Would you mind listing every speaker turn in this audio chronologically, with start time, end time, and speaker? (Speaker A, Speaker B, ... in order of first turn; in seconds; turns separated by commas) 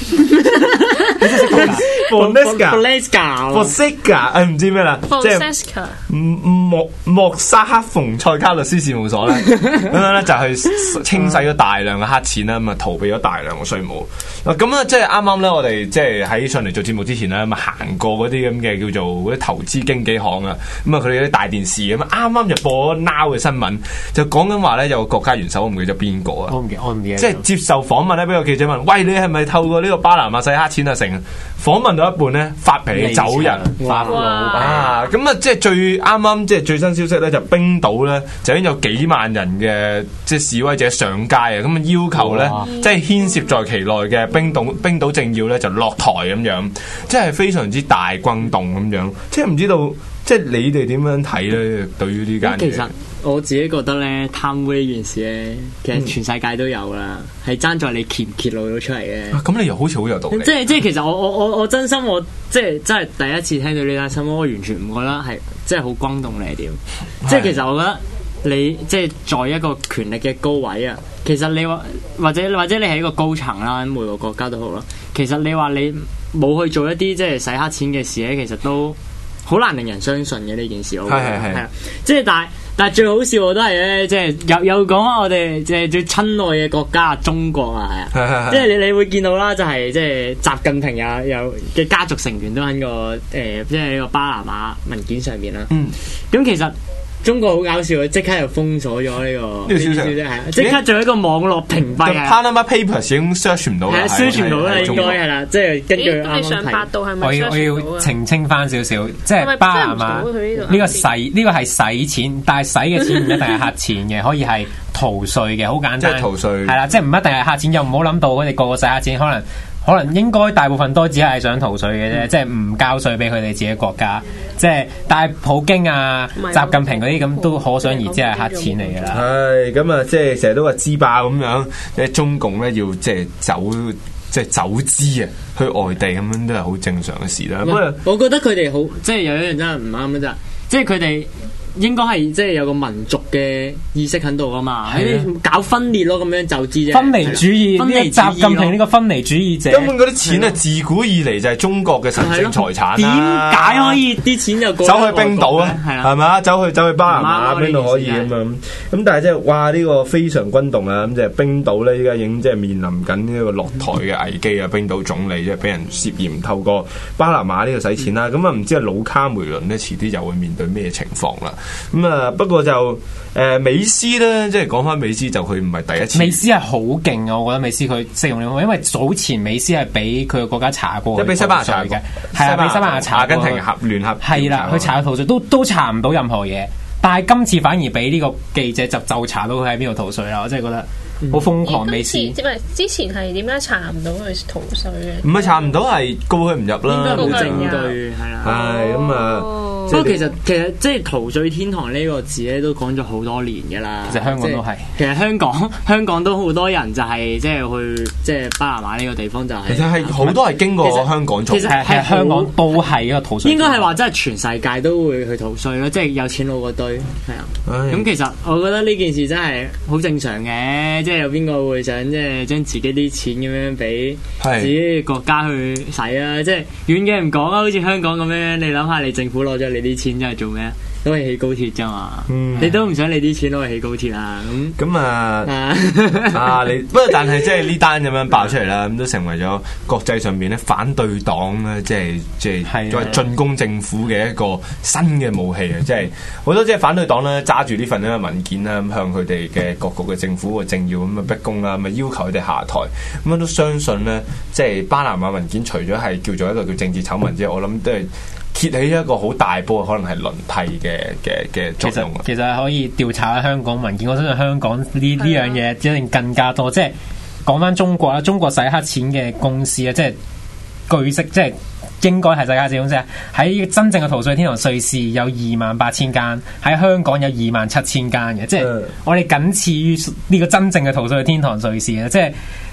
Speaker A: 0.2-3.8, Speaker B: 1.2-1.8, Speaker C: 1.4-2.8, Speaker C: 3.5-5.5, Speaker D: 5.1-6.0, Speaker C: 6.1-26.6, Speaker B: 26.5-27.4, Speaker C: 27.2-33.7, Speaker B: 32.9-34.9, Speaker A: 33.8-34.2, Speaker D: 34.0-34.8, Speaker C: 34.5-52.9, Speaker A: 42.1-42.7, Speaker A: 52.4-59.4, Speaker C: 59.3-60.6, Speaker A: 60.3-95.7, Speaker C: 67.2-67.5, Speaker C: 81.0-81.6, Speaker C: 88.1-88.7, Speaker C: 95.7-96.0, Speaker A: 96.3-102.4, Speaker C: 99.7-100.8, Speaker C: 102.0-105.2, Speaker A: 103.9-106.9, Speaker D: 105.9-108.1, Speaker B: 107.2-129.2, Speaker D: 109.4-111.1, Speaker C: 116.0-116.8, Speaker D: 126.4-129.2, Speaker C: 129.1-138.0, Speaker A: 137.6-148.8, Speaker B: 144.8-145.3, Speaker B: 146.9-149.9, Speaker C: 149.7-154.0, Speaker A: 150.2-150.6, Speaker A: 152.2-156.1, Speaker C: 154.8-176.4, Speaker A: 157.0-158.3, Speaker B: 176.1-183.6, Speaker C: 181.1-185.0, Speaker B: 184.2-192.3, Speaker A: 191.2-191.5, Speaker D: 191.6-195.7, Speaker C: 195.2-197.8, Speaker A: 196.9-198.6, Speaker D: 197.1-197.9, Speaker C: 198.4-200.3, Speaker D: 198.4-200.0, Speaker A: 199.9-212.6, Speaker B: 204.1-204.9, Speaker C: 209.7-211.8, Speaker B: 211.7-213.9, Speaker A: 213.4-234.8, Speaker C: 217.7-218.1, Speaker C: 224.4-224.7, Speaker C: 232.3-232.8, Speaker C: 234.8-235.5, Speaker A: 235.4-236.5, Speaker C: 236.2-262.2, Speaker B: 242.6-243.2, Speaker B: 261.8-266.9, Speaker D: 265.2-265.5, Speaker B: 267.4-270.1, Speaker B: 270.9-282.4, Speaker C: 278.6-278.9